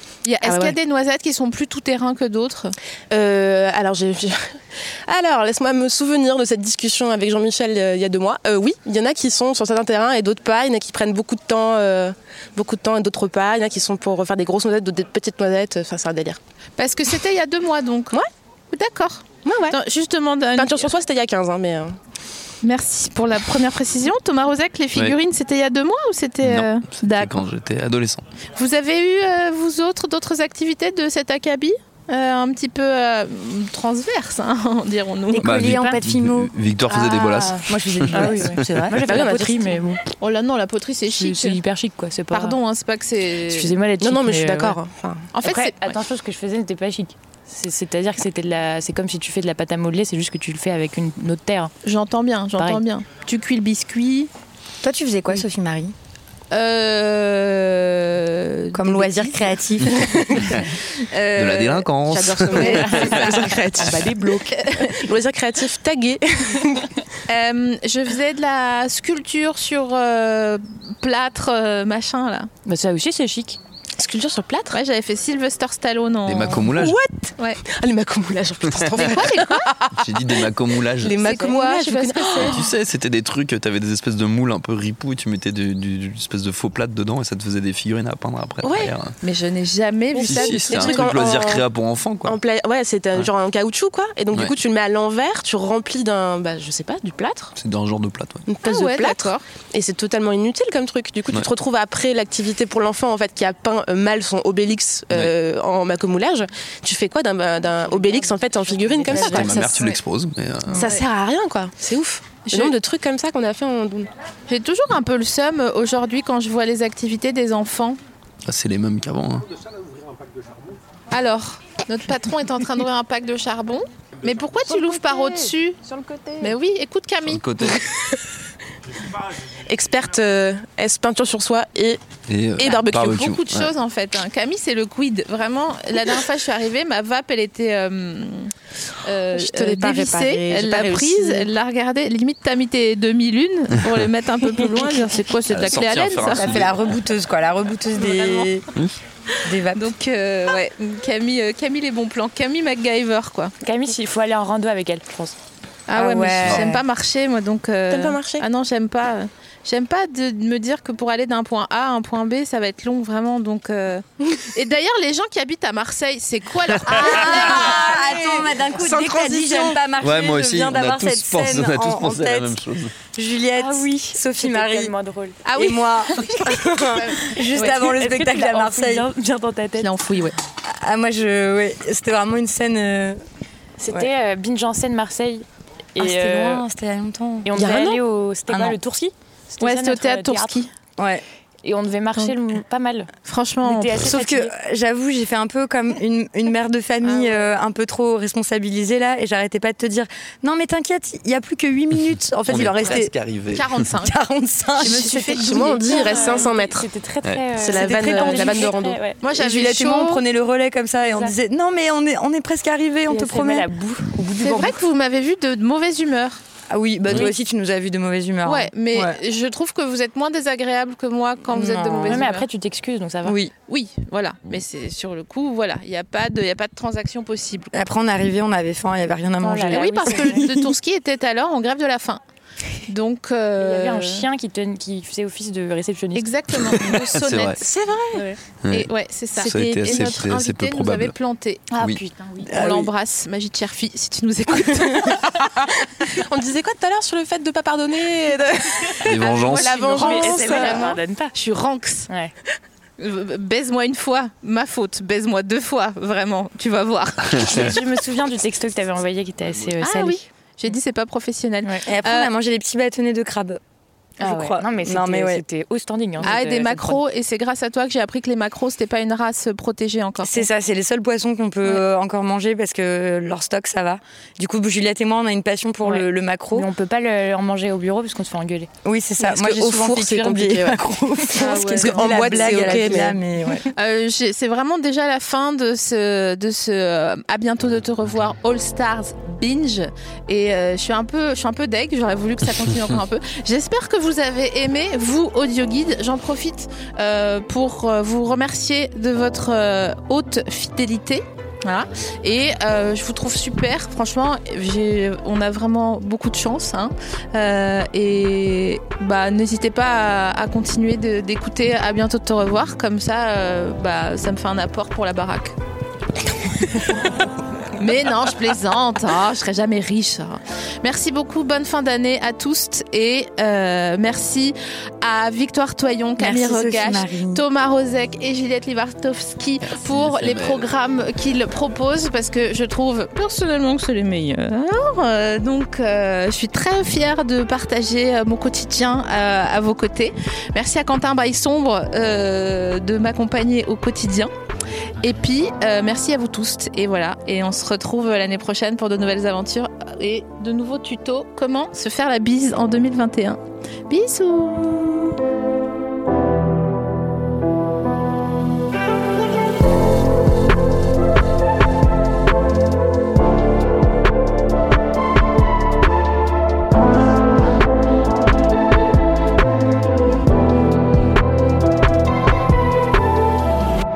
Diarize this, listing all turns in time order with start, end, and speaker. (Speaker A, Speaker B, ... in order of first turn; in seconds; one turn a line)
Speaker A: 0.2-2.8
Speaker B: 0.4-0.8
Speaker B: 3.1-4.5
Speaker B: 5.1-16.4
Speaker A: 16.8-18.2
Speaker A: 18.7-20.9
Speaker B: 19.4-19.8
Speaker B: 20.6-22.0
Speaker A: 22.6-27.4
Speaker C: 26.4-28.2
Speaker A: 28.6-35.5
Speaker D: 35.4-39.4
Speaker C: 35.4-38.7
Speaker E: 35.5-36.0
Speaker E: 37.3-40.0
Speaker B: 39.0-39.7
Speaker A: 40.2-41.6
Speaker E: 41.1-42.6
Speaker A: 42.3-43.7
Speaker E: 43.5-44.8
Speaker B: 44.0-45.3
Speaker A: 45.3-46.0
Speaker E: 45.4-51.7
Speaker A: 51.8-54.3
Speaker D: 54.8-55.9
Speaker A: 56.5-64.0
Speaker D: 58.7-60.0
Speaker C: 61.4-63.4
Speaker B: 62.4-64.0
Speaker E: 62.9-64.6
Speaker A: 64.5-65.0
Speaker B: 64.9-66.9
Speaker A: 67.3-72.5
Speaker E: 72.7-73.6
Speaker B: 74.0-74.8
Speaker A: 74.7-76.7
Speaker C: 76.3-77.0
Speaker B: 76.6-82.7
Speaker C: 78.8-79.1
Speaker A: 79.0-79.7
Speaker C: 80.0-81.3
Speaker A: 81.2-82.7
Speaker C: 82.4-89.1
Speaker B: 88.6-89.0
Speaker A: 89.2-91.2
Speaker B: 90.2-91.7
Speaker C: 90.2-92.4
Speaker B: 92.2-97.5
Speaker C: 97.6-98.5
Speaker B: 98.5-110.0
Speaker A: 98.6-99.4
Speaker E: 107.9-109.3
Speaker A: 109.1-110.0
Speaker D: 109.1-109.6
Speaker C: 109.1-110.9
Speaker B: 110.7-114.1
Speaker A: 110.8-111.1
Speaker A: 112.5-112.7
Speaker A: 114.5-118.0
Speaker C: 118.5-119.5
Speaker A: 121.1-125.8
Speaker E: 124.7-126.5
Speaker A: 126.4-127.5
Speaker C: 127.2-127.9
Speaker B: 129.7-132.0
Speaker C: 132.3-133.7
Speaker B: 132.6-133.3
Speaker A: 132.6-146.6
Speaker B: 139.3-141.5
Speaker C: 145.5-147.0
Speaker D: 146.2-148.7
Speaker A: 148.0-148.5
Speaker D: 149.5-149.8
Speaker A: 149.7-153.5
Speaker E: 153.6-155.4
Speaker A: 155.9-168.2
Speaker D: 156.0-156.8
Speaker C: 156.4-156.7
Speaker B: 157.9-158.5
Speaker D: 166.9-174.9
Speaker B: 167.0-169.8
Speaker C: 170.0-173.0
Speaker E: 173.6-175.4
Speaker A: 175.4-177.8
Speaker D: 175.5-179.1
Speaker E: 177.6-179.9
Speaker A: 179.8-180.4
Speaker D: 180.6-183.2
Speaker E: 183.8-185.4
Speaker E: 186.0-186.7
Speaker D: 186.0-187.6
Speaker E: 187.4-190.6
Speaker B: 187.5-188.0
Speaker D: 188.5-188.8
Speaker A: 189.6-190.7
Speaker D: 191.0-191.2
Speaker E: 191.6-193.1
Speaker A: 193.2-194.0
Speaker E: 193.6-194.5
Speaker D: 193.9-203.1
Speaker A: 197.0-197.6
Speaker C: 202.5-203.8
Speaker A: 203.5-204.2
Speaker D: 204.0-205.8
Speaker A: 204.8-206.6
Speaker B: 204.8-206.9
Speaker E: 205.9-209.2
Speaker C: 207.2-207.6
Speaker B: 207.6-209.0
Speaker D: 207.8-208.7
Speaker A: 209.2-210.2
Speaker D: 209.3-213.7
Speaker E: 213.1-214.8
Speaker A: 214.4-216.4
Speaker D: 216.7-219.2
Speaker A: 217.1-217.3
Speaker A: 218.4-222.5
Speaker D: 221.5-222.2
Speaker E: 222.1-223.4
Speaker D: 223.2-223.5
Speaker A: 223.7-227.7
Speaker D: 227.7-230.4
Speaker E: 229.4-230.5
Speaker A: 229.7-232.2
Speaker A: 232.8-234.3
Speaker E: 233.6-236.9
Speaker A: 236.1-237.6
Speaker C: 236.5-237.6
Speaker B: 237.6-238.2
Speaker A: 238.2-245.4
Speaker C: 238.6-241.2
Speaker B: 239.9-240.2
Speaker D: 242.4-242.9
Speaker B: 246.1-250.9
Speaker C: 249.1-249.9
Speaker A: 249.1-252.1
Speaker E: 249.9-251.3
Speaker D: 250.5-250.9
Speaker A: 253.0-257.7
Speaker C: 257.4-257.6
Speaker E: 257.4-260.2
Speaker A: 259.8-262.3
Speaker D: 261.9-263.6
Speaker D: 264.2-265.4
Speaker E: 264.2-267.0
Speaker A: 266.2-270.5
Speaker D: 270.2-276.7
Speaker E: 275.8-278.7
Speaker D: 278.8-283.7
Speaker B: 279.2-280.8
Speaker E: 281.3-283.0
Speaker A: 281.4-282.9
Speaker B: 281.6-283.1
Speaker A: 283.6-315.6
Speaker A: 316.5-317.1
Speaker A: 317.8-344.3
Speaker D: 326.2-327.4
Speaker C: 329.6-330.7
Speaker A: 345.0-355.2